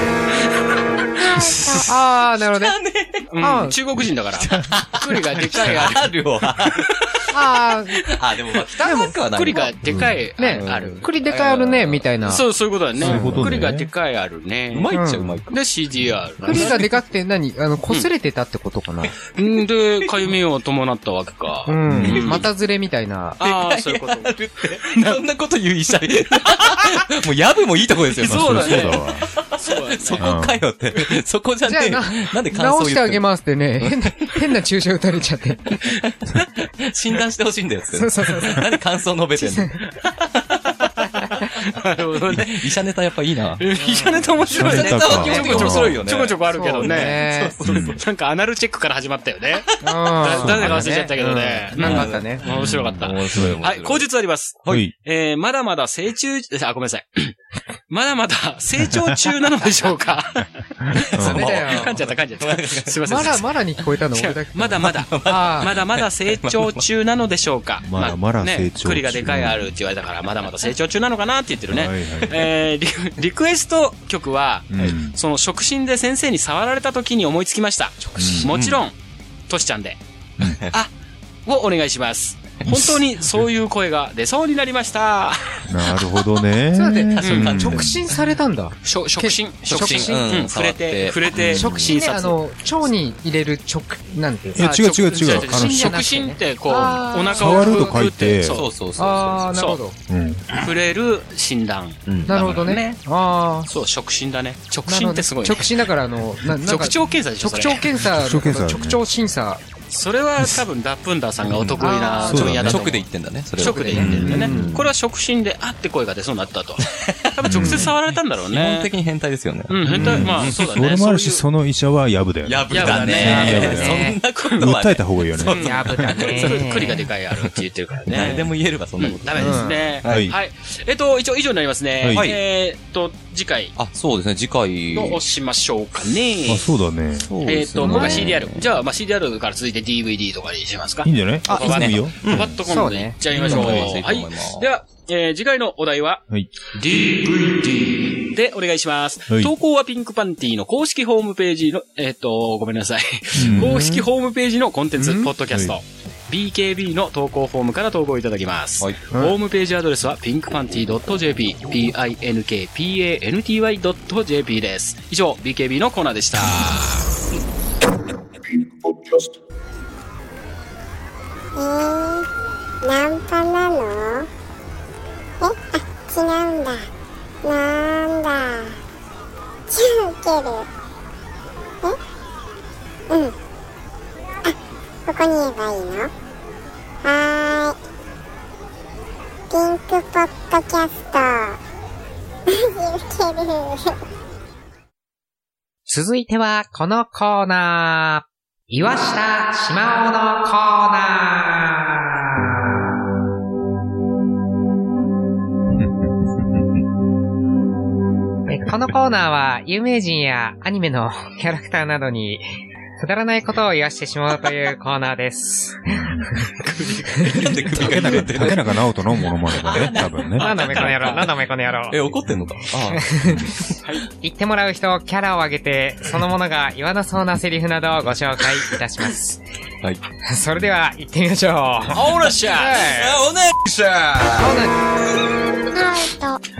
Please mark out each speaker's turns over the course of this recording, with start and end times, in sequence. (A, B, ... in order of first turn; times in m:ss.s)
0:01.2-0:01.9 A
0:01.6-0:02.8 B
0:02.5-0:03.3 A
0:03.3-0:06.2 C
0:03.4-0:03.8 B
0:04.4-0:07.2 A
0:04.5-0:04.8 D
0:07.3-0:08.0 B
0:08.0-0:12.1 A
0:08.8-0:09.6 B
0:08.9-0:11.1 C
0:09.8-0:10.2 D
0:10.4-0:12.4 B
0:12.2-0:14.9 C
0:13.0-0:13.9 D
0:13.1-0:13.5 A
0:14.7-0:15.6 A
0:14.9-0:15.4 B
0:15.5-0:16.8 C
0:16.4-0:19.1 B
0:16.5-0:16.9 A
0:19.4-0:22.4 C
0:20.0-0:20.3 A
0:21.7-0:23.4 B
0:21.9-0:22.4 D
0:23.4-0:25.2 C
0:23.4-0:33.2 A
0:28.1-0:29.0 C
0:28.2-0:29.3 D
0:29.6-0:30.3 C
0:30.2-0:30.6 D
0:31.7-0:35.8 B
0:33.8-0:34.3 A
0:35.7-0:39.9 A
0:37.9-0:38.7 B
0:39.4-0:39.7 B
0:40.5-0:41.2 A
0:41.7-0:42.7 C
0:42.3-0:43.6 A
0:43.6-0:57.4 C
0:43.8-0:44.2 B
0:44.4-0:48.0 A
0:44.5-0:46.0 D
0:45.2-0:45.4 B
0:46.5-0:47.5 B
0:47.6-0:48.0 D
0:49.8-0:52.4 B
0:50.4-0:50.9 D
0:51.8-0:54.1 A
0:51.8-0:52.1 D
0:54.7-0:54.9 D
0:57.9-1:03.5 C
1:01.0-1:01.5 D
1:01.1-1:03.4 A
1:01.2-1:01.9 B
1:03.1-1:05.7 B
1:04.1-1:19.0 C
1:04.9-1:06.8 A
1:07.8-1:09.7 D
1:11.7-1:12.5 D
1:14.7-1:15.2 D
1:18.0-1:18.4 B
1:18.2-1:18.5 D
1:18.5-1:18.8 A
1:19.5-1:20.0 C
1:20.4-1:20.8 A
1:21.4-1:26.0 C
1:22.6-1:23.0 A
1:25.7-1:28.0 D
1:26.7-1:30.2 B
1:27.2-1:27.5 C
1:27.2-1:27.9 A
1:28.8-1:32.4 C
1:29.6-1:32.0 A
1:31.5-1:34.7 B
1:34.6-1:36.0 D
1:34.6-1:38.7 C
1:35.4-1:38.0 B
1:37.3-1:38.6 D
1:38.4-1:39.5 A
1:39.0-1:40.0 B
1:39.5-1:39.8 C
1:40.1-1:40.4 D
1:40.5-1:43.0 C
1:42.1-1:42.8 A
1:42.2-1:43.7 B
1:43.7-1:45.7 C
1:44.9-1:49.6 B
1:46.7-1:47.9 C
1:48.0-1:49.0 D
1:49.9-1:58.9 C
1:51.4-1:54.9 A
1:51.8-1:52.5 B
1:52.2-1:52.8 D
1:53.9-1:54.6 D
1:54.0-1:54.7 B
1:56.9-2:00.6 A
1:57.4-1:57.9 D
1:59.7-2:01.4 C
1:59.9-2:06.2 D
2:02.4-2:07.6 A
2:02.7-2:04.7 C
2:03.3-2:04.2 B
2:05.4-2:13.7 C
2:05.6-2:07.0 B
2:08.1-2:10.3 A
2:09.4-2:09.9 B
2:09.4-2:10.3 D
2:12.0-2:12.3 D
2:12.1-2:12.4 A
2:13.8-2:15.2 A
2:14.9-2:16.7 C
2:16.4-2:17.3 D
2:17.2-2:18.7 A
2:17.4-2:26.2 C
2:17.9-2:18.3 B
2:21.0-2:22.6 D
2:21.5-2:22.5 A
2:22.6-2:23.8 B
2:23.3-2:24.7 A
2:23.4-2:23.8 D
2:26.7-2:47.1 C
2:33.4-2:33.8 D
2:33.4-2:34.1 A
2:35.0-2:35.3 B
2:35.5-2:35.8 D
2:51.6-2:52.2 E
2:52.8-2:54.3 E
2:55.4-2:56.9 E
2:57.4-2:58.7 E
2:59.7-3:00.7 E
3:05.1-3:06.1 E
3:07.0-3:07.8 E
3:09.5-3:11.6 E
3:12.5-3:13.9 E
3:15.9-3:22.5 B
3:25.7-3:26.6 D
3:28.5-3:32.4 B
3:33.0-3:36.5 B
3:35.9-3:36.3 D
3:36.6-3:37.6 C
3:37.1-3:38.7 A
3:37.7-3:40.5 D
3:39.6-3:41.3 A
3:39.7-3:41.2 C
3:40.4-3:42.1 B
3:41.9-3:43.4 A
3:42.9-3:43.6 B
3:44.2-3:49.4 B
3:50.2-3:53.2 B
3:51.9-3:52.9 C
3:52.7-3:54.6 A
3:54.4-3:54.7 B
3:55.7-3:56.4 E